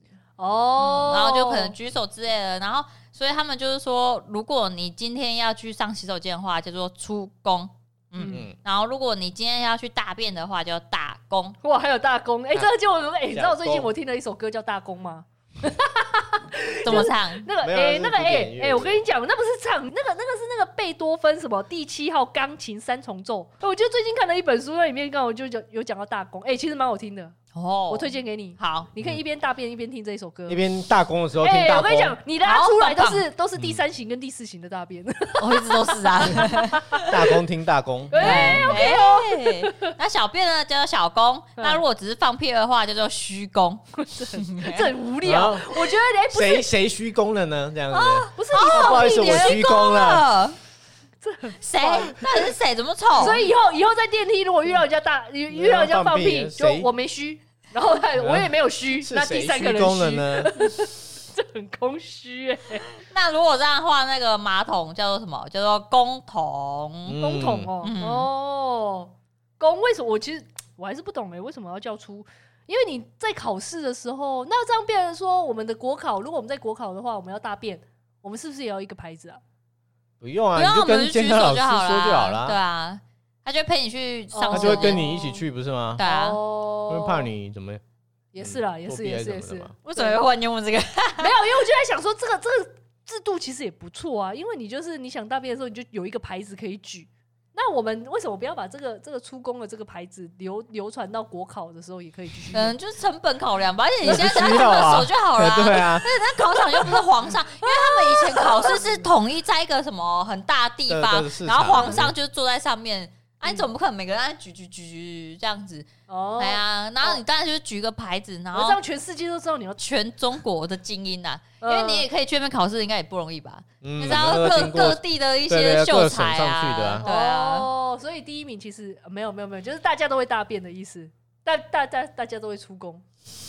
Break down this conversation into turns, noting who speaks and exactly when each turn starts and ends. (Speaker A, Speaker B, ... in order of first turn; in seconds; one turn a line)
Speaker A: 0.4-1.7
Speaker B: 0.8-11.6
Speaker C: 8.2-8.6
Speaker A: 8.2-8.5
Speaker A: 11.6-27.4
Speaker C: 13.3-13.9
Speaker B: 16.8-17.5
Speaker C: 16.9-19.0
Speaker B: 27.5-28.9
Speaker A: 27.9-30.6
Speaker C: 30.5-32.2
Speaker A: 31.4-37.1
Speaker B: 32.4-33.2
Speaker B: 35.4-37.1
Speaker C: 37.1-38.8
Speaker A: 38.1-39.9
Speaker B: 38.2-43.8
Speaker A: 41.6-41.8
Speaker A: 44.0-46.7
Speaker B: 44.3-44.9
Speaker C: 45.2-50.3
Speaker B: 48.1-50.6
Speaker A: 48.1-49.6
Speaker A: 51.2-52.5
Speaker B: 51.6-53.5
Speaker A: 53.2-62.9
Speaker C: 55.5-56.9
Speaker C: 58.2-60.6
Speaker B: 63.0-67.2
Speaker C: 67.0-67.7
Speaker A: 67.2-79.4
Speaker B: 67.8-68.3
Speaker C: 80.2-82.6
Speaker B: 80.5-85.0
Speaker A: 84.3-85.4
Speaker C: 84.5-86.0
Speaker B: 86.0-86.4
Speaker A: 86.0-87.3
Speaker C: 86.9-87.8
Speaker A: 88.3-90.2
Speaker C: 88.4-89.8
Speaker B: 89.8-91.4
Speaker A: 91.2-102.8
Speaker B: 102.5-118.8
Speaker C: 104.0-106.1
Speaker A: 107.6-109.1
Speaker C: 110.9-112.2
Speaker A: 111.8-112.0
Speaker A: 116.1-117.2
Speaker A: 118.5-119.8
Speaker B: 119.8-127.7
Speaker A: 121.6-122.0
Speaker C: 123.8-127.0
Speaker A: 127.0-133.0